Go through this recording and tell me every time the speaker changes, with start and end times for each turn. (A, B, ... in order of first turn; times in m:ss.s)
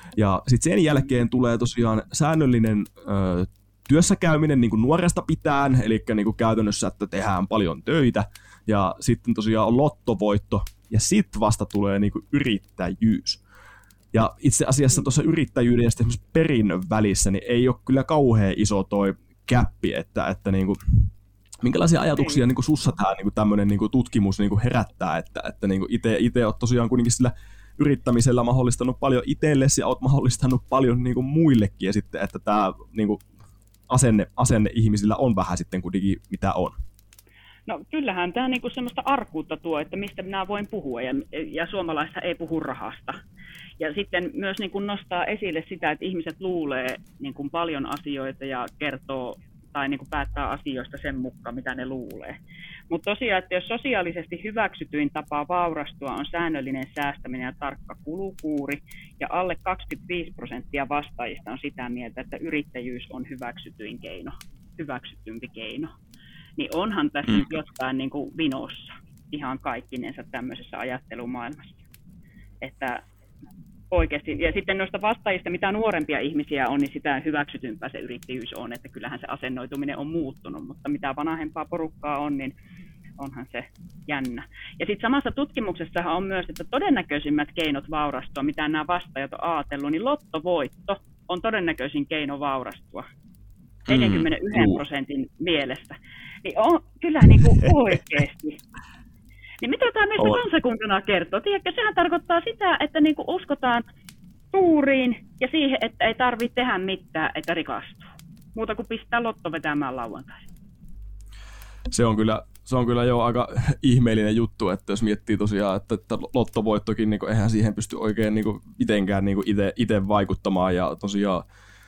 0:00.2-0:13.4 A
0:14.1-0:21.1 A
0:21.6-0:33.2 A
0:22.2-0:22.4 B
0:33.9-0:36.8 A
0:37.7-0:43.2 B
0:43.8-0:52.4 B
0:52.9-1:05.9 B
1:06.6-1:11.8 B
1:12.6-1:13.0 B
1:13.9-1:22.5 B
1:23.2-1:33.0 B
1:33.9-1:34.8 A
1:33.9-1:38.6 B
1:39.6-1:43.8 B
1:44.5-1:50.5 B
1:51.9-2:01.4 A